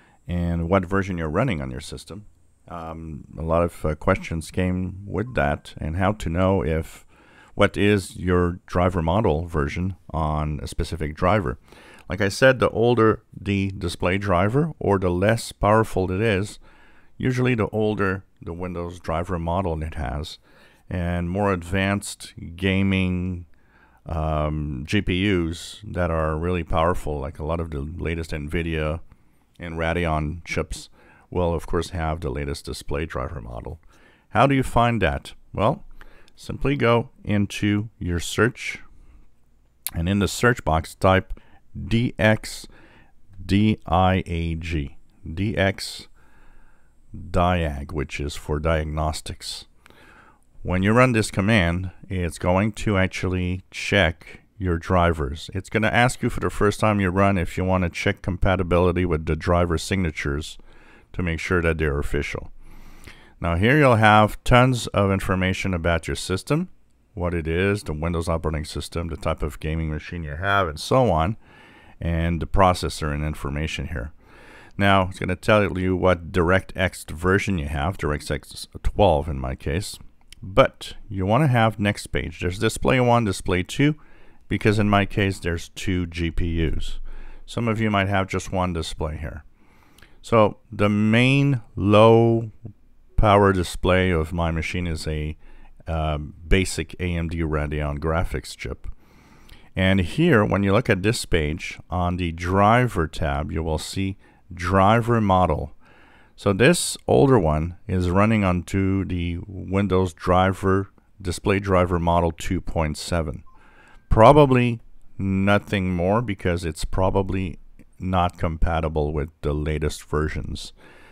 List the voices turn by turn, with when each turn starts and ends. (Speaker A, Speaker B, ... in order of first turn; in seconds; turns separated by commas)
Speaker A: 0.3-16.6, Speaker A: 17.2-23.5, Speaker A: 24.1-29.0, Speaker A: 29.6-35.8, Speaker A: 36.4-38.8, Speaker A: 40.0-42.7, Speaker A: 43.4-46.1, Speaker A: 47.1-49.7, Speaker A: 50.6-60.6, Speaker A: 61.1-62.5, Speaker A: 63.4-71.4, Speaker A: 72.0-74.1, Speaker A: 74.8-84.0, Speaker A: 84.5-89.4, Speaker A: 90.2-92.5, Speaker A: 93.2-98.9, Speaker A: 99.8-105.7, Speaker A: 106.4-113.4, Speaker A: 114.1-120.7